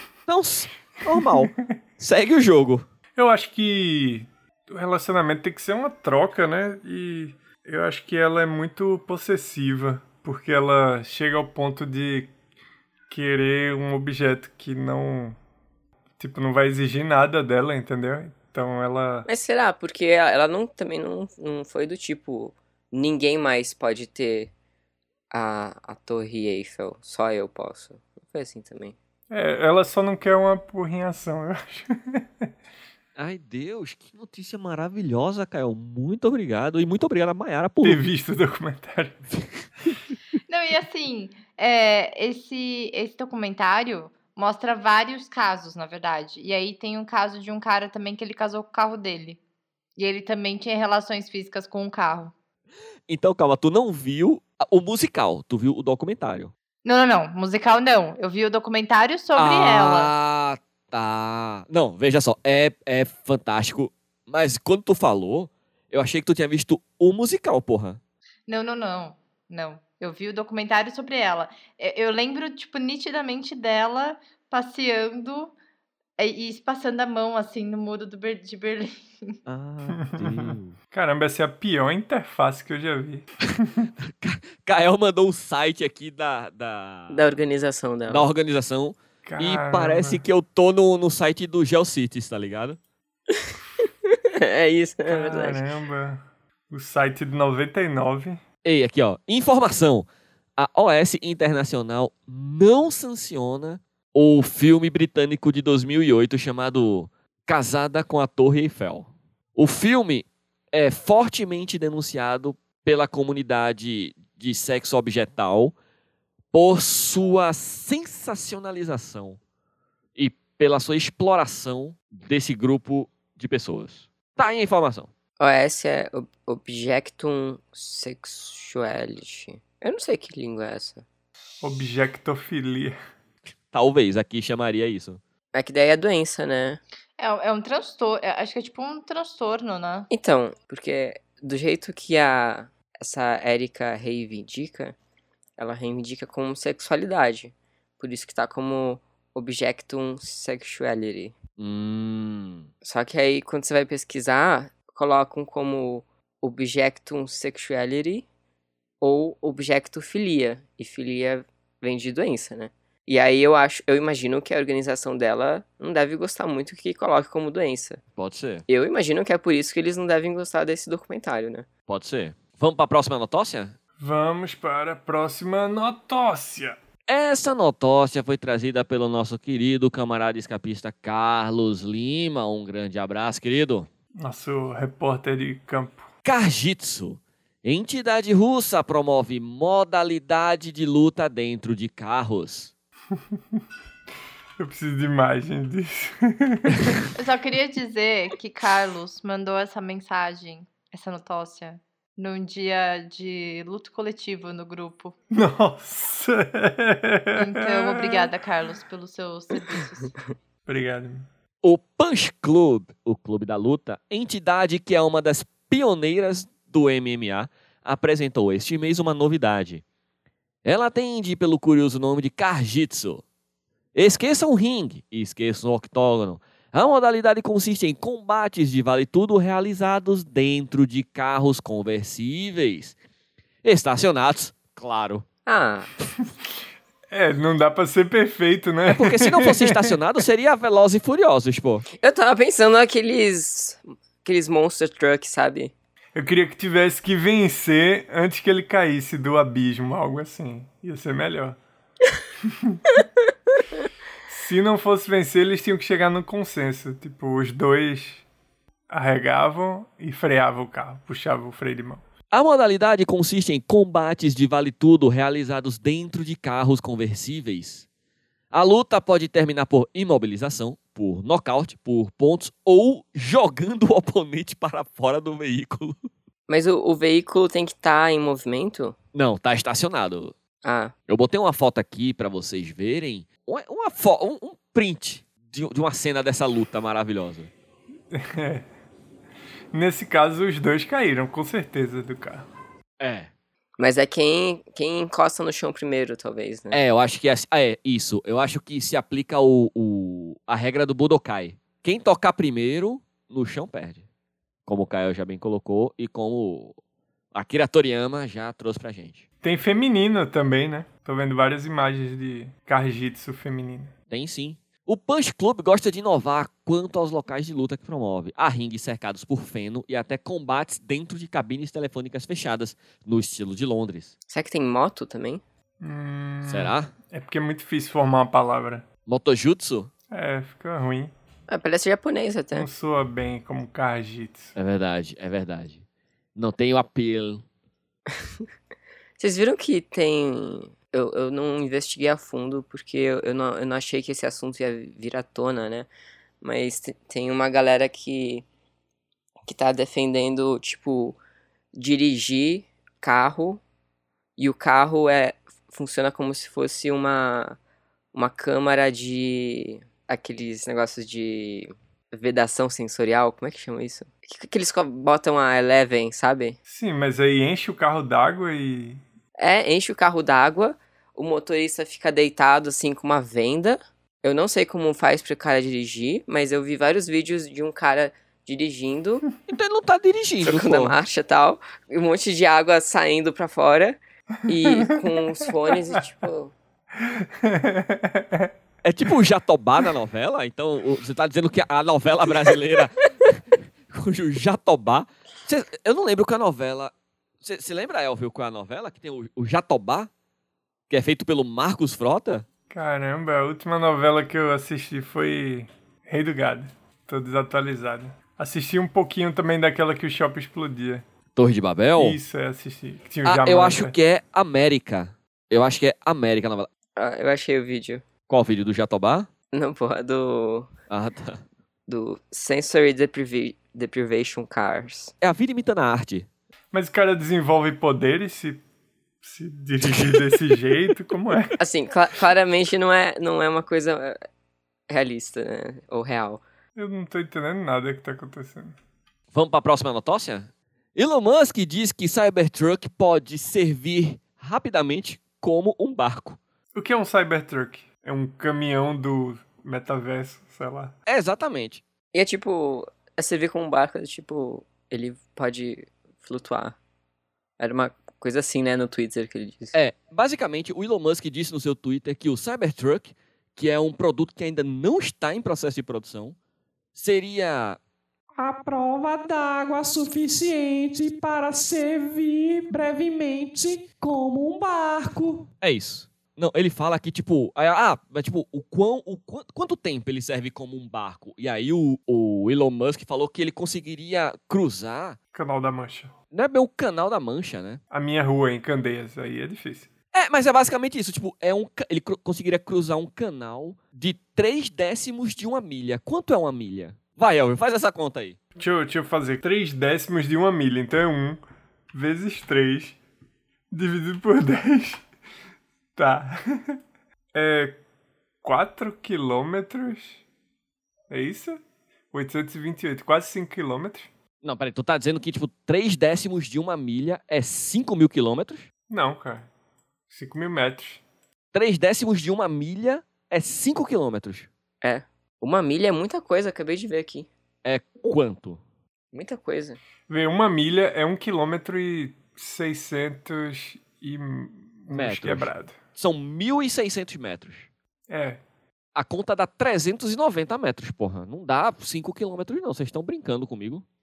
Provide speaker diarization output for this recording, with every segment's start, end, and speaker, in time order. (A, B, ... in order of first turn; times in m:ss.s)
0:00.3-0:02.9 A
0:01.2-0:01.5 B
0:03.2-0:12.3 B
0:13.1-0:15.4 B
0:16.2-0:19.3 B
0:19.3-0:24.5 C
0:25.3-0:29.0 C
0:29.3-0:32.2 B
0:33.2-0:38.0 A
0:37.8-0:39.2 B
0:40.5-0:49.4 D
0:50.0-0:52.3 D
0:53.1-0:56.5 A
0:56.8-1:00.1 D
0:59.4-1:08.0 A
1:08.5-1:15.5 D
1:16.2-1:19.4 D
1:19.5-1:20.8 A
1:19.9-1:23.9 B
1:24.0-1:27.3 A
1:27.1-1:28.3 C
1:28.1-1:32.8 A
1:29.2-1:30.2 B
1:34.1-1:35.6 C
1:35.1-1:38.4 B
1:38.6-1:55.8 A
1:56.5-1:59.4 A
2:00.2-2:05.1 A
2:05.4-2:11.0 C
2:11.6-2:13.0 B
2:13.7-2:15.2 A
2:15.5-2:16.8 C
2:17.2-2:20.1 D
2:20.1-2:25.0 C
2:25.6-2:31.4 C
2:31.6-2:32.7 A
2:32.8-2:38.3 C
2:39.0-2:48.0 C
2:48.2-2:48.6 A
2:48.7-2:51.7 C
2:51.9-2:53.8 A
2:54.0-2:56.8 B
2:57.1-3:03.9 A
3:04.2-3:06.1 B
3:06.2-3:12.7 A
3:14.6-3:17.1 B
3:17.2-3:25.1 D
3:25.3-3:28.3 B
3:27.4-3:30.2 D
3:30.7-3:31.3 B
3:31.6-3:39.8 A
3:40.6-3:43.2 A
3:43.9-3:53.0 A
3:53.6-3:55.3 A
3:55.5-3:55.9 C
3:57.1-4:00.0 B
3:58.9-4:01.8 A
4:01.9-4:05.7 C
4:06.2-4:11.6 B
4:14.3-4:18.2 B
4:18.9-4:22.0 B
4:22.3-4:27.9 A
4:28.5-4:36.0 A
4:36.5-4:39.0 C
4:39.1-4:40.4 A
4:40.6-4:40.9 C
4:41.1-4:47.5 A
4:48.1-4:48.7 B
4:49.7-4:52.5 B
4:53.0-4:53.3 A
4:53.8-4:56.8 C
4:56.7-5:04.0 A
5:04.7-5:06.8 A
5:07.3-5:09.2 A
5:09.4-5:13.9 B
5:14.1-5:24.1 A
5:24.3-5:25.4 C
5:25.8-5:28.9 B
5:26.5-5:26.9 A
5:29.1-5:29.9 A
5:30.1-5:31.1 B
5:31.5-5:32.7 C
5:32.5-5:34.6 B
5:34.6-5:35.8 A
5:36.4-5:37.4 A
5:39.2-5:45.9 C
5:46.4-5:48.5 C
5:49.5-5:51.2 C
5:51.7-5:53.6 C
5:54.4-5:57.6 C
5:58.1-6:06.6 C
6:06.7-6:09.0 B
6:09.4-6:19.3 C
6:19.5-6:21.0 A
6:20.4-6:26.5 C
6:24.5-6:25.1 B
6:27.0-6:28.5 B
6:28.8-6:40.1 A
6:40.9-6:42.5 A
6:42.7-6:51.0 B
6:51.4-6:52.2 A
6:52.0-6:54.0 B
6:53.2-6:56.7 A
6:57.0-6:58.0 C
6:58.3-6:59.3 A
6:59.5-7:00.7 C
7:00.9-7:01.4 A
7:01.9-7:05.1 C
7:05.2-7:06.3 A
7:06.7-7:08.6 B
7:09.2-7:11.6 B
7:09.8-7:10.4 A
7:11.6-7:14.2 C
7:14.9-7:16.4 C
7:16.8-7:18.8 B
7:19.3-7:26.4 A
7:26.7-7:30.9 B
7:31.1-7:31.8 A
7:32.1-7:36.8 C
7:37.6-7:39.8 C
7:39.7-7:46.4 A
7:46.9-7:47.8 A
7:48.4-7:55.5 E
7:55.6-8:05.2 A
8:05.3-8:06.1 B
8:06.3-8:07.8 A
8:07.9-8:09.9 B
8:10.1-8:18.4 A
8:18.6-8:21.4 B
8:21.9-8:23.0 B
8:23.7-8:25.0 B
8:26.0-8:26.8 B
8:27.3-8:27.8 B
8:28.4-8:30.2 B
8:31.1-8:34.1 B
8:34.4-8:38.7 A
8:38.9-8:39.5 B
8:40.1-8:41.0 B
8:41.5-8:44.5 A
8:44.8-8:47.3 C
8:47.6-8:48.6 A
8:49.1-8:49.8 C
8:50.1-8:55.8 B
8:54.9-8:57.7 A
8:58.1-8:58.4 B
8:59.0-9:03.8 A